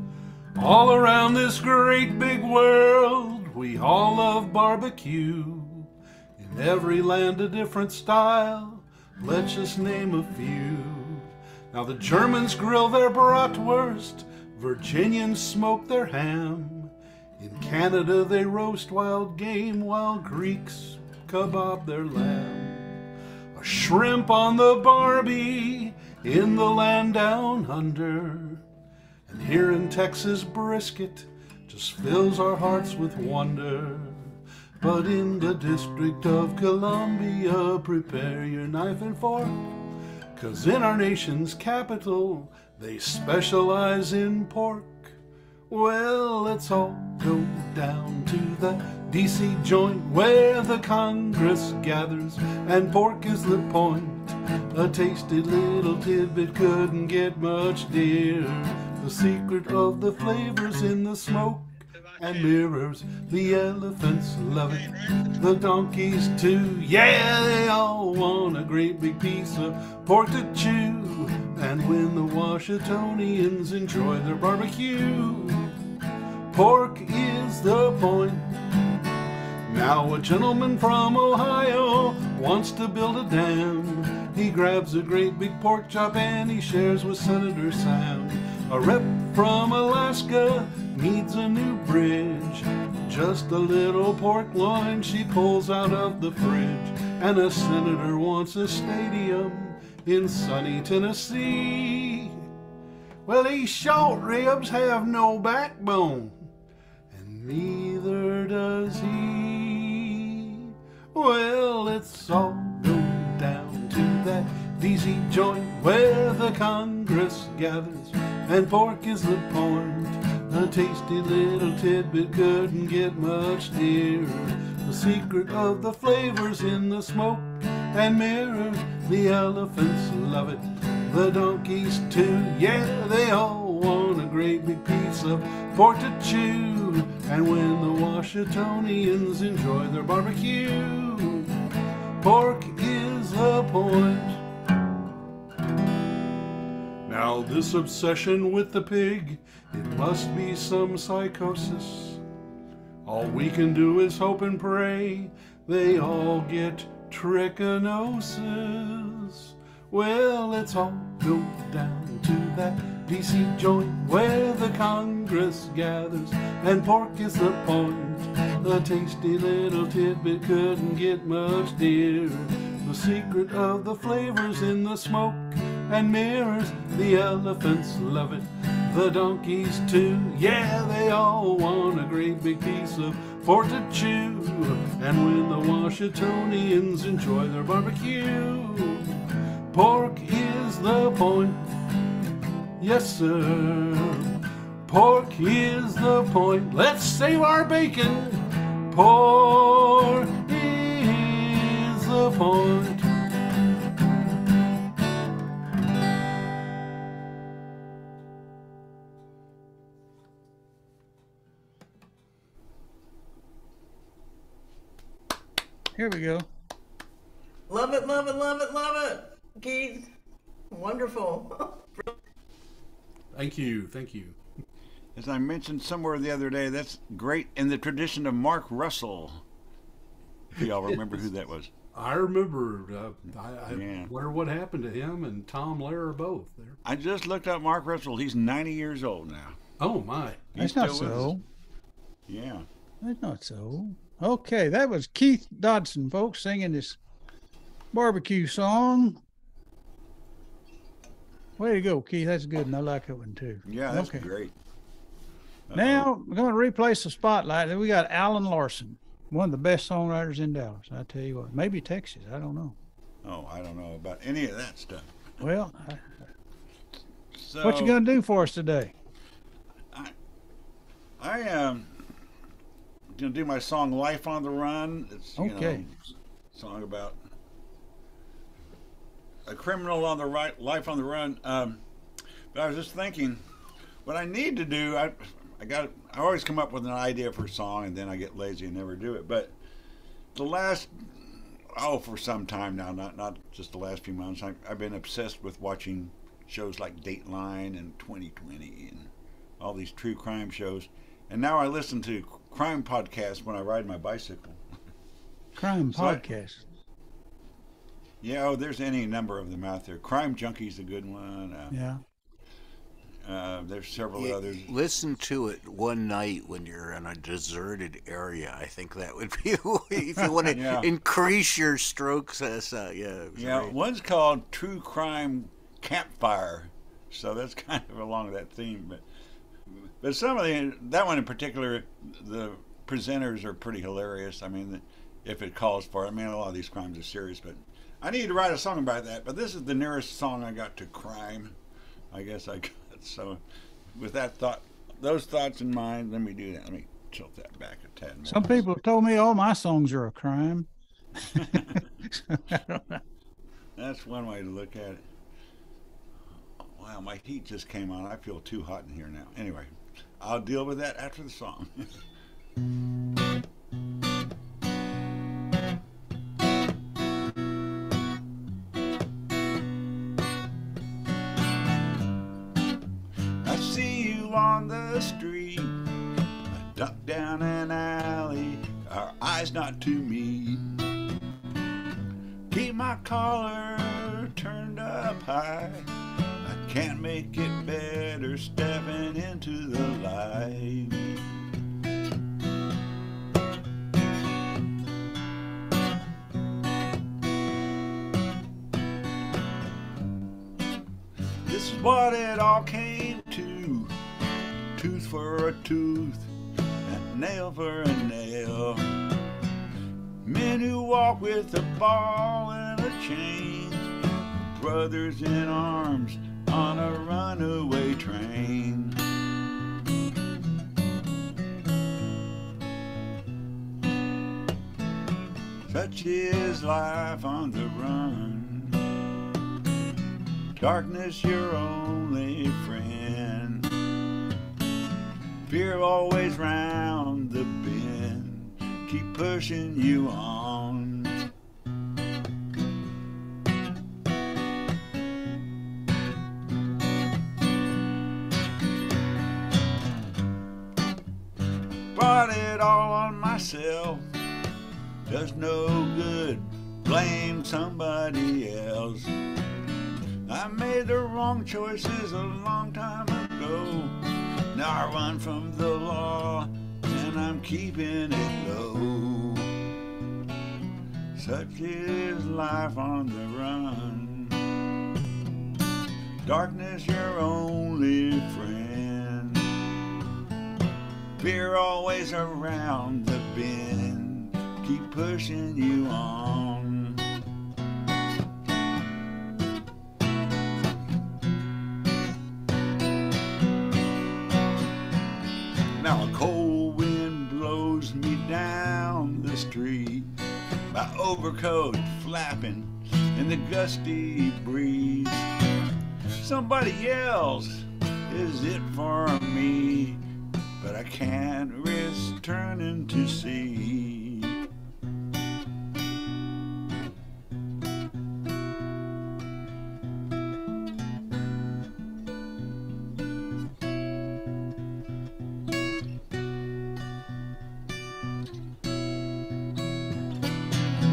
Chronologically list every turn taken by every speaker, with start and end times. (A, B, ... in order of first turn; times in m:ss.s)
0:00.6-0:23.0 A
0:23.5-0:28.6 A
0:29.3-0:39.7 A
0:40.4-0:45.2 A
0:45.7-1:15.7 A
1:16.5-1:18.5 A
1:19.7-1:42.4 A
1:43.2-1:46.5 A
1:47.1-2:21.5 A
2:22.2-2:24.4 A
2:27.0-2:32.2 A
2:33.0-3:11.7 A
3:12.8-3:14.3 A
3:14.8-3:23.1 A
3:35.9-3:36.5 B
3:37.7-3:40.1 C
3:40.7-3:42.2 C
3:43.3-3:44.4 A
3:45.1-3:49.4 D
3:50.5-3:51.7 D
3:51.9-3:56.8 A
3:53.7-3:54.1 D
3:56.8-3:59.6 D
3:59.8-4:00.5 A
4:00.5-4:01.3 D
4:00.6-4:01.4 B
4:02.3-4:02.7 D
4:03.0-4:07.0 B
4:07.9-4:09.2 B
4:11.6-4:14.3 B
4:13.6-4:14.5 D
4:15.7-4:16.1 D
4:15.7-4:22.8 B
4:23.2-4:25.2 D
4:25.4-4:26.0 B
4:27.3-4:28.0 D
4:27.6-4:28.9 B
4:31.2-4:32.1 D
4:33.1-4:37.2 D
4:35.4-4:35.8 B
4:39.4-4:41.8 D
4:42.5-4:43.4 D
4:44.0-4:49.6 D
4:50.3-5:04.6 D
5:05.6-5:06.6 B
5:05.9-5:06.2 D
5:08.2-5:11.7 D
5:11.7-5:12.0 B
5:13.2-5:14.7 D
5:14.2-5:23.7 E
5:20.4-5:20.9 D
5:23.4-5:29.0 D
5:29.7-5:41.6 D
5:42.1-5:43.4 D
5:43.9-5:48.6 D
5:48.2-5:50.7 B
5:51.3-5:51.8 D
5:51.3-5:53.0 B
5:53.8-5:55.0 D
5:56.6-6:01.9 D
6:13.4-6:15.8 D
6:16.5-6:20.9 D
6:22.5-6:25.9 D
6:26.4-6:31.1 D
6:41.4-6:44.0 D
6:44.7-6:49.0 D
6:50.2-6:59.0 D
7:05.7-7:08.8 D
7:10.6-7:13.7 D
7:15.4-7:21.2 D
7:31.9-7:34.0 D
7:35.0-7:39.1 D
7:40.2-7:44.0 D
7:44.5-7:49.6 D
7:51.1-7:54.4 D
7:56.2-7:59.5 D
8:01.2-8:07.0 D
8:15.8-8:20.1 D
8:20.7-8:25.3 D
8:26.0-8:30.0 D
8:30.6-8:34.4 D